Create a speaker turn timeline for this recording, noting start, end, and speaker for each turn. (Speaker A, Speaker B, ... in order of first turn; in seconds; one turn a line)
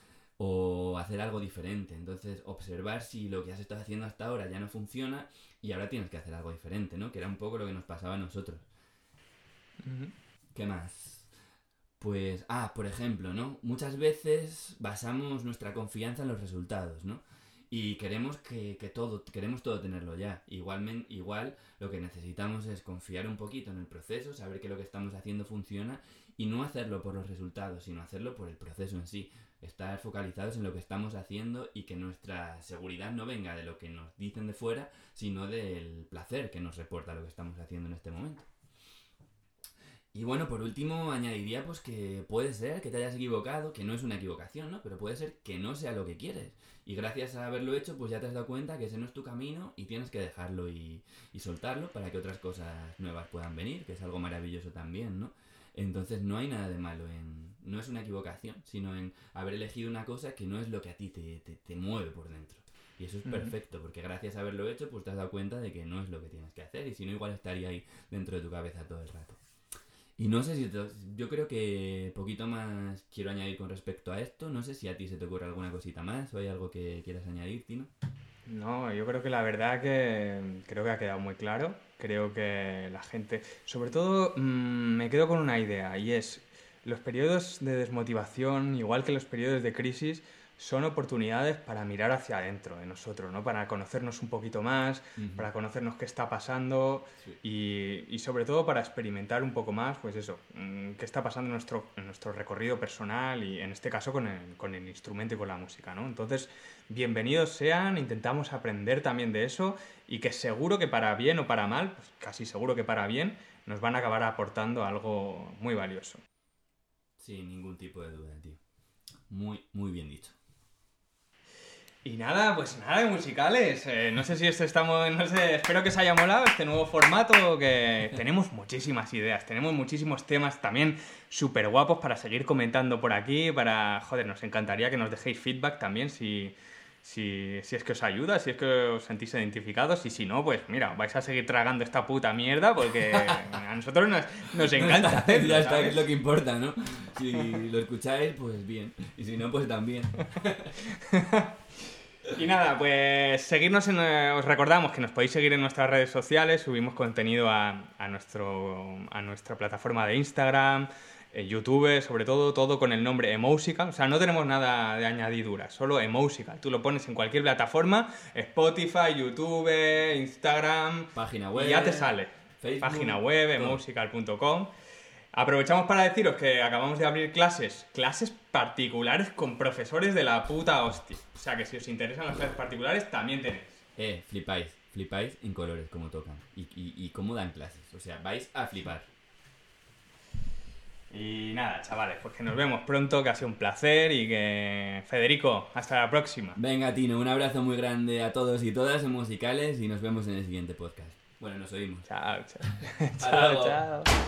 Speaker A: 0.4-8.7
Speaker B: 9.8-10.1
Speaker A: 10.6-11.3
Speaker A: 12.0-38.5
Speaker A: 40.1-69.4
Speaker B: 63.2-63.5
Speaker A: 70.2-77.9
Speaker B: 78.5-116.2
Speaker A: 95.2-95.5
Speaker A: 117.2-118.6
Speaker A: 119.3-120.3
Speaker B: 122.0-146.1
Speaker A: 143.1-143.4
Speaker A: 144.6-150.8
Speaker B: 150.9-151.5
Speaker B: 152.3-174.7
Speaker A: 171.2-173.8
Speaker B: 175.3-183.8
Speaker A: 184.0-189.1
Speaker B: 191.1-196.6
Speaker A: 196.6-202.1
Speaker B: 202.1-204.1
Speaker A: 203.2-203.8